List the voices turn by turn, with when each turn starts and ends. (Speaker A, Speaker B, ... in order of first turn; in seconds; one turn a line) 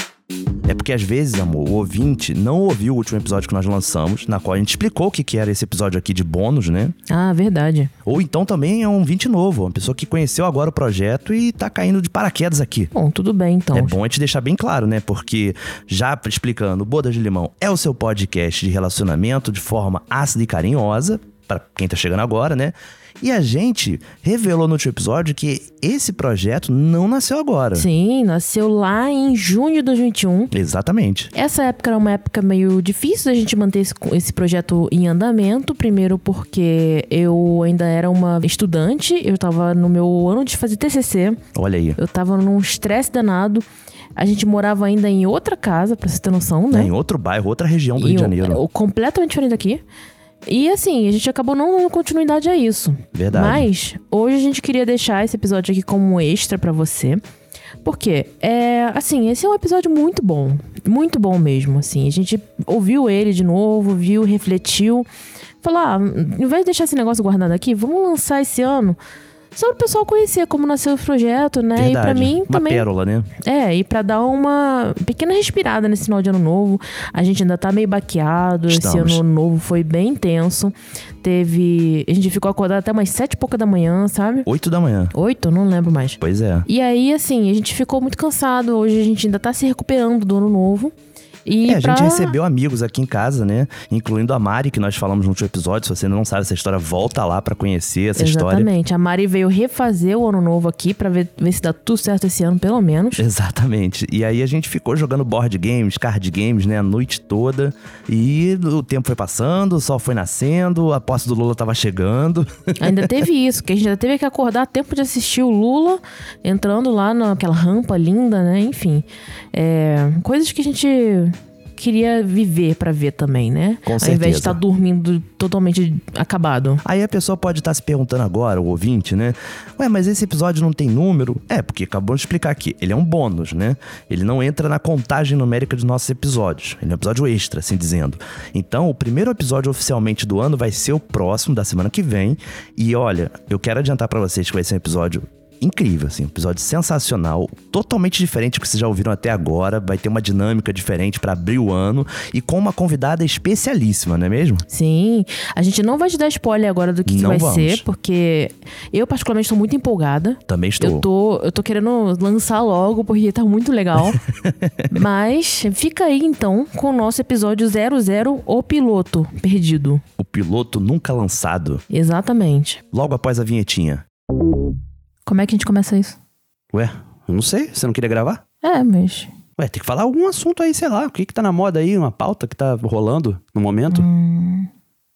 Speaker A: 0.7-6.9
Speaker B: 7.1-7.9
Speaker A: 8.1-12.9
Speaker B: 12.9-14.0
Speaker A: 13.7-27.9
Speaker B: 27.7-30.5
Speaker A: 30.5-31.3
Speaker B: 31.3-41.4
Speaker A: 41.5-42.0
Speaker B: 42.0-46.9
Speaker A: 46.7-48.6
Speaker B: 48.0-49.8
Speaker B: 50.5-57.2
Speaker A: 53.1-53.7
Speaker B: 57.8-65.1
Speaker B: 65.6-69.0
Speaker B: 69.5-84.5
Speaker A: 71.8-73.3
Speaker A: 78.7-79.2
Speaker A: 84.5-85.1
Speaker B: 85.1-90.9
Speaker A: 86.2-86.7
Speaker B: 91.5-92.3
Speaker A: 91.7-98.7
Speaker B: 98.2-103.3
Speaker A: 103.2-113.0
Speaker B: 112.8-126.8
Speaker A: 123.9-124.6
Speaker A: 126.8-154.6
Speaker B: 154.7-164.2
Speaker A: 157.1-157.8
Speaker A: 160.5-161.1
Speaker B: 164.9-170.0
Speaker A: 170.2-171.8
Speaker B: 171.9-172.8
Speaker A: 172.9-174.0
Speaker B: 175.3-176.2
Speaker A: 176.7-178.4
Speaker B: 178.6-179.3
Speaker A: 179.6-184.1
Speaker B: 183.9-184.7